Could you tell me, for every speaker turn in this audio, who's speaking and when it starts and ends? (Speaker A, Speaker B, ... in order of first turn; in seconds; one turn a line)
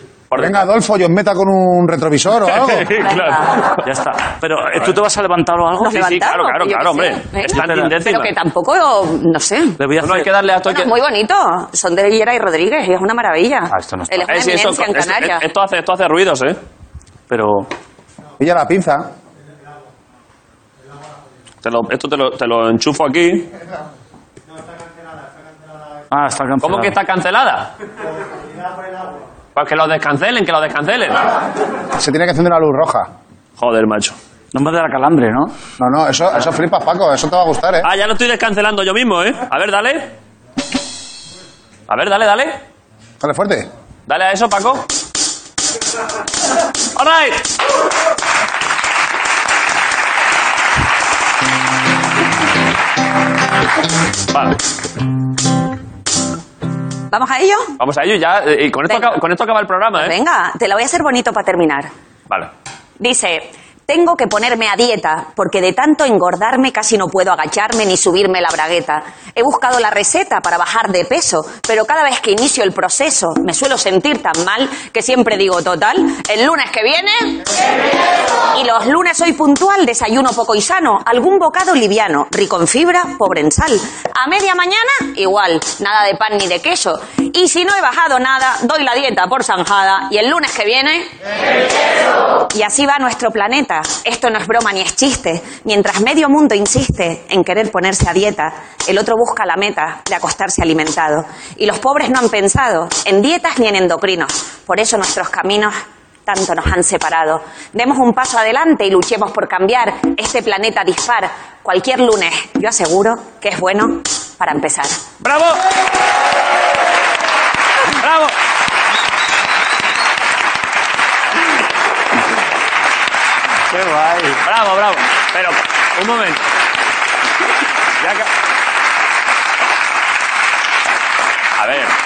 Speaker A: 0.3-0.6
Speaker B: 0.4-2.9
Speaker A: 2.5-3.8
Speaker C: 3.0-3.5
Speaker D: 3.8-6.0
Speaker C: 5.8-9.8
Speaker A: 5.9-8.3
Speaker D: 7.5-8.0
Speaker D: 9.8-10.3
Speaker A: 10.0-10.9
Speaker C: 10.7-15.4
Speaker D: 13.7-14.3
Speaker A: 14.3-16.6
Speaker D: 17.3-17.7
Speaker B: 18.4-19.1
Speaker A: 21.6-23.5
Speaker D: 26.1-27.0
Speaker A: 26.6-27.7
Speaker A: 29.6-31.2
Speaker B: 32.0-33.1
Speaker A: 33.6-34.2
Speaker D: 34.5-35.5
Speaker B: 35.8-37.9
Speaker A: 37.8-40.1
Speaker A: 41.9-42.6
Speaker B: 43.2-43.7
Speaker A: 44.1-44.9
Speaker A: 47.0-47.5
Speaker A: 54.3-54.6
Speaker C: 57.1-57.7
Speaker A: 57.8-60.1
Speaker C: 58.9-59.1
Speaker C: 60.0-61.9
Speaker C: 63.0-77.5
Speaker C: 78.5-91.1
Speaker C: 92.5-105.7
Speaker C: 106.3-115.0
Speaker A: 115.2-115.6
Speaker A: 118.0-118.3
Speaker D: 123.7-124.4
Speaker A: 124.4-126.4
Speaker A: 128.0-128.3
Speaker A: 131.6-131.9